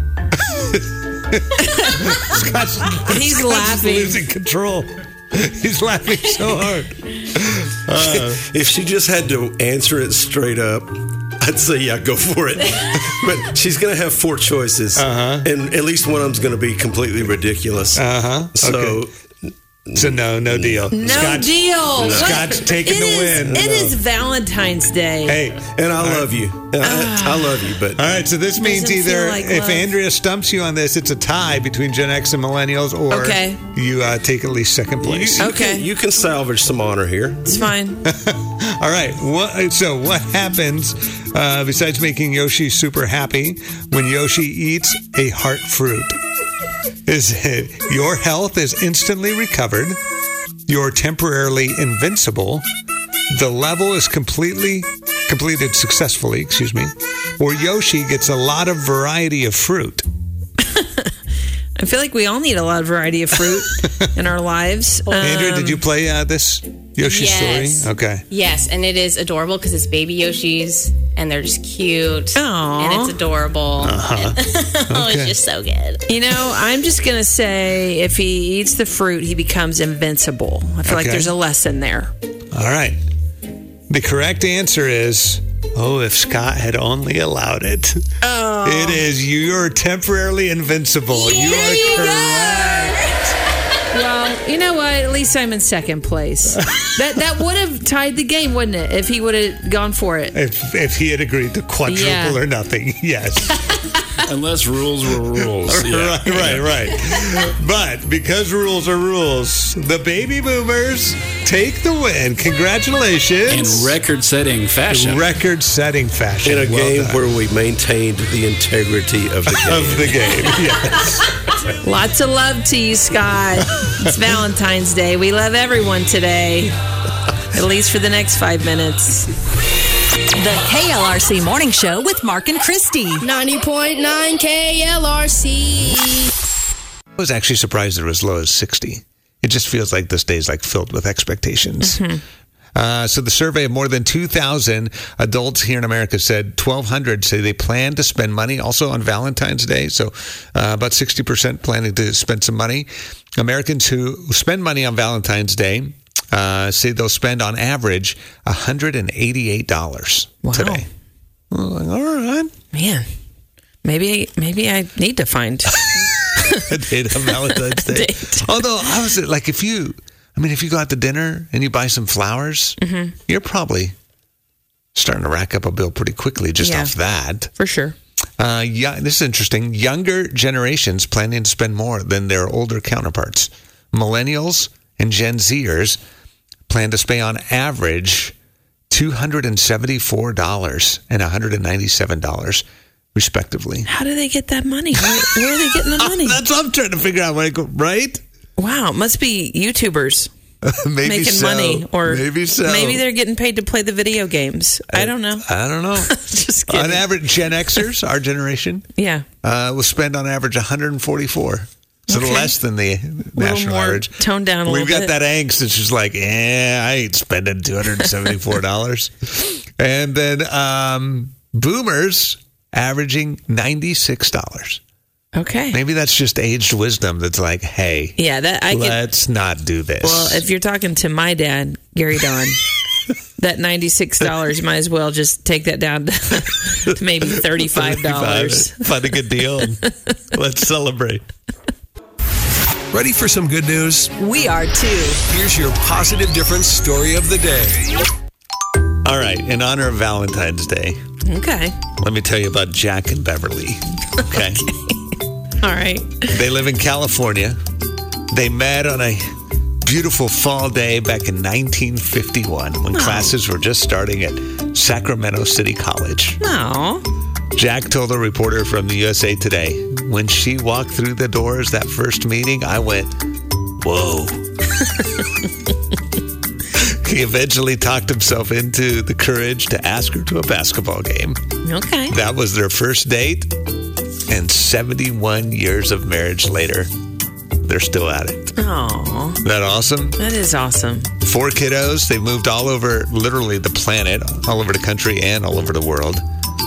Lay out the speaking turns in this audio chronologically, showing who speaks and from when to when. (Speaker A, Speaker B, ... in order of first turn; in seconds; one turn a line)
Speaker A: 0.3-8.4
Speaker B: 1.6-2.2
Speaker B: 3.0-4.2
Speaker C: 8.1-18.0
Speaker A: 14.9-15.5
Speaker A: 17.9-19.0
Speaker C: 18.6-21.4
Speaker A: 19.9-23.6
Speaker B: 20.9-25.4
Speaker C: 22.0-22.4
Speaker C: 23.5-24.0
Speaker A: 25.2-26.4
Speaker C: 25.7-28.0
Speaker B: 26.8-27.6
Speaker A: 27.9-35.5
Speaker B: 28.6-29.9
Speaker B: 33.1-33.6
Speaker C: 35.0-37.5
Speaker B: 35.4-35.9
Speaker B: 37.5-38.0
Speaker A: 38.0-46.2
Speaker A: 47.0-50.0
Speaker A: 50.7-52.6
Speaker A: 53.3-60.0
Speaker B: 60.7-61.1
Speaker B: 61.8-65.8
Speaker A: 63.5-64.1
Speaker D: 65.0-65.6
Speaker A: 65.2-68.2
Speaker D: 67.0-76.0
Speaker B: 72.3-73.1
Speaker A: 73.8-74.4
Speaker A: 74.9-75.3
Speaker B: 76.1-82.1
Speaker A: 80.8-81.3
Speaker A: 82.5-83.0
Speaker A: 83.9-88.1
Speaker B: 88.2-89.0
Speaker A: 88.6-93.2
Speaker B: 91.1-92.8
Speaker B: 93.9-100.3
Speaker A: 96.5-96.9
Speaker A: 100.3-103.8
Speaker B: 101.9-102.4
Speaker E: 104.2-106.7
Speaker A: 105.6-114.0
Speaker E: 113.5-115.2
Speaker A: 114.9-117.2
Speaker C: 116.4-120.3
Speaker A: 119.5-121.4
Speaker B: 121.8-126.7
Speaker A: 123.8-124.3
Speaker B: 127.5-129.3
Speaker F: 130.3-133.2
Speaker D: 133.2-136.3
Speaker A: 137.2-142.0
Speaker B: 141.8-142.2
Speaker A: 142.7-160.9
Speaker B: 160.4-160.8
Speaker A: 161.5-162.5
Speaker B: 162.7-163.1
Speaker B: 163.8-166.7
Speaker A: 165.8-173.9
Speaker B: 167.5-168.6
Speaker B: 172.8-173.1
Speaker A: 174.9-177.5
Speaker B: 176.6-176.9
Speaker B: 177.6-177.9
Speaker A: 178.4-186.0
Speaker A: 186.7-188.3
Speaker A: 188.9-192.6
Speaker A: 193.1-193.9
Speaker B: 193.8-196.4
Speaker A: 195.0-198.2
Speaker B: 198.6-200.3
Speaker A: 200.6-203.0
Speaker B: 201.0-207.1
Speaker A: 204.9-206.2
Speaker A: 206.7-208.8
Speaker B: 208.9-209.2
Speaker A: 209.4-224.8
Speaker B: 212.1-212.5
Speaker B: 213.3-215.1
Speaker B: 225.3-225.8
Speaker A: 225.7-228.2
Speaker B: 228.2-229.0
Speaker A: 228.7-230.4
Speaker B: 230.0-232.6
Speaker B: 233.4-238.8
Speaker A: 237.1-241.2
Speaker G: 242.9-244.1
Speaker B: 244.2-245.2
Speaker G: 245.3-248.0
Speaker A: 249.0-251.0
Speaker B: 251.2-251.8
Speaker A: 252.0-254.7
Speaker B: 254.3-254.9
Speaker B: 255.6-256.4
Speaker A: 256.3-257.6
Speaker A: 258.3-266.4
Speaker B: 262.9-263.3
Speaker B: 266.4-267.0
Speaker A: 267.5-273.1
Speaker A: 273.8-274.4
Speaker A: 276.7-281.4
Speaker B: 281.6-282.1
Speaker A: 282.1-283.5
Speaker A: 284.3-286.9
Speaker A: 287.6-288.5
Speaker B: 288.6-289.4
Speaker A: 289.4-290.2
Speaker B: 290.2-291.1
Speaker A: 291.2-296.2